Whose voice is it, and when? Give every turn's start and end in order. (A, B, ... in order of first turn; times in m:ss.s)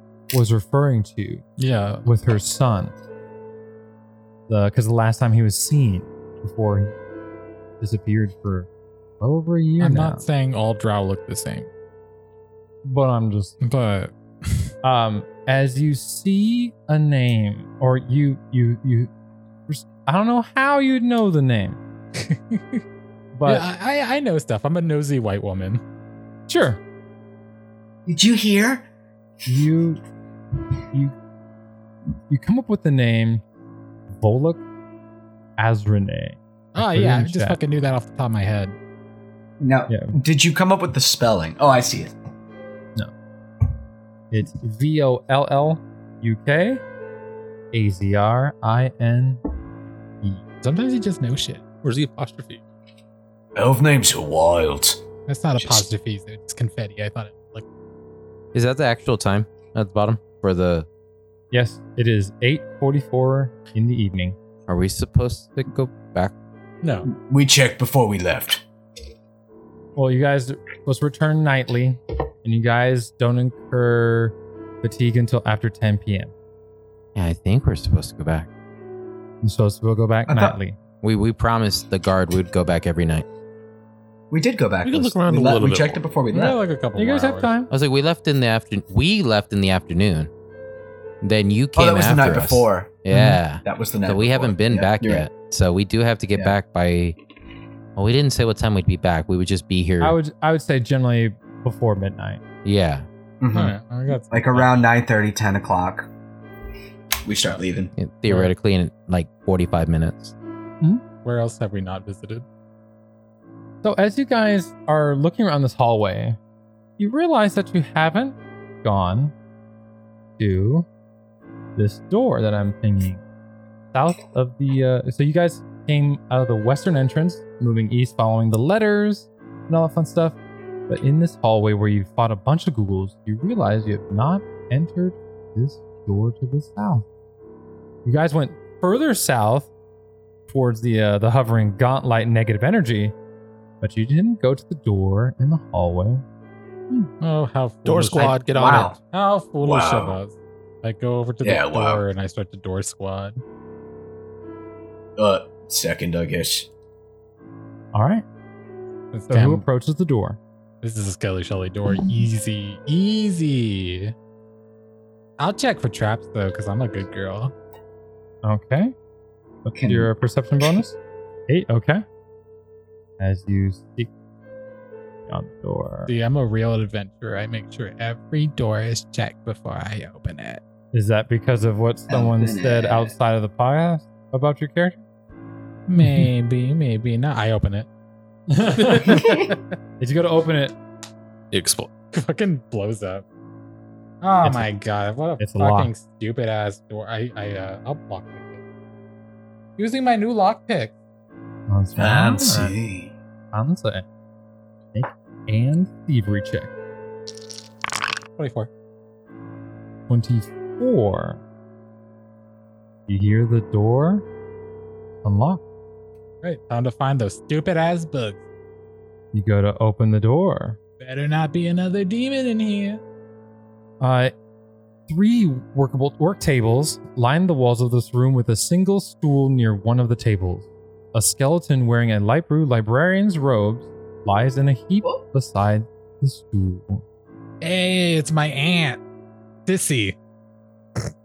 0:00.3-0:01.4 A
0:01.6-0:02.1 B
0:02.0-0:02.9 A
0:04.5-0:06.9 A
0:07.8-0:08.7 A
0:09.2-0:10.2 A
0:09.8-0:11.7 B
0:12.8-0:13.6 A
0:13.6-0:14.7 B
0:14.8-0:19.1 A
0:19.7-0:21.8 A
0:22.2-0:22.8 B
0:23.3-0:23.7 A
0:23.4-0:25.8 B
0:26.5-0:26.8 A
0:28.0-0:28.8 C
0:29.4-0:30.0 A
0:32.3-0:33.4 A
0:34.1-0:34.6 A
0:35.6-0:37.6 A
0:36.7-0:38.8 B
0:39.6-0:42.1 C
0:39.9-0:40.2 A
0:44.3-0:46.8 A
0:47.7-0:49.4 A
0:50.6-0:51.6 B
0:51.8-0:52.6 D
0:53.6-0:55.0 C
0:55.3-0:57.6 B
0:55.6-0:55.9 C
0:58.5-1:00.9 E
1:01.5-1:04.4 A
1:04.7-1:06.3 E
1:06.8-1:07.1 B
1:07.1-1:08.6 C
1:10.0-1:16.3 A
1:17.1-1:18.5 E
1:19.4-1:20.8 A
1:20.3-1:20.6 C
1:21.0-1:23.2 E
1:24.3-1:26.6 C
1:24.8-1:26.0 D
1:26.3-1:27.5 B
1:27.0-1:27.7 A
1:27.7-1:30.3 E
1:31.2-1:37.2 E
1:31.8-1:33.0 C
1:33.1-1:33.4 A
1:33.6-1:35.3 C
1:38.0-1:40.2 E
1:40.0-1:42.4 A
1:42.6-1:43.0 E
1:43.4-1:43.8 C
1:43.5-1:44.8 B
1:44.3-1:46.1 C
1:47.2-1:47.9 C
1:48.0-1:50.3 E
1:51.2-1:52.4 B
1:53.8-1:56.4 A
1:57.0-1:59.3 A
2:00.4-2:00.9 A
2:01.8-2:03.2 A
2:03.9-2:10.4 A
2:10.9-2:17.0 A
2:18.0-2:19.7 A
2:20.5-2:23.1 A
2:23.8-2:26.2 A
2:27.2-2:33.4 B
2:27.8-2:28.9 D
2:28.6-2:29.0 C
2:29.6-2:30.2 C
2:31.4-2:32.0 C
2:35.2-2:36.7 C
2:37.9-2:38.2 A
2:39.1-2:39.6 B
2:39.3-2:40.4 A
2:40.8-2:44.1 B
2:45.4-2:47.5 B
2:48.4-2:48.9 A
2:49.6-2:51.0 A
2:49.7-2:50.1 C
2:51.5-2:52.0 A
2:53.2-2:54.1 A
2:55.3-2:56.1 A
2:56.1-3:00.6 B
3:00.9-3:05.0 A
3:02.1-3:03.1 C
3:05.9-3:07.9 B
3:06.0-3:06.3 A
3:08.5-3:09.3 A
3:09.2-3:09.5 C
3:10.0-3:10.8 A
3:11.5-3:11.9 D
3:12.1-3:13.2 B
3:14.2-3:18.6 B
3:14.4-3:14.7 A
3:15.4-3:15.9 A
3:19.8-3:20.9 B
3:21.7-3:22.8 A
3:22.0-3:23.1 C
3:23.5-3:24.0 A
3:24.9-3:26.7 A
3:28.4-3:28.7 B
3:30.1-3:31.4 A
3:33.1-3:34.2 A
3:35.2-3:35.6 A
3:36.4-3:38.4 B
3:39.3-3:40.8 A
3:41.0-3:43.0 B
3:44.0-3:44.3 A
3:45.1-3:57.0 A
3:57.6-3:59.0 B
3:59.6-4:00.2 B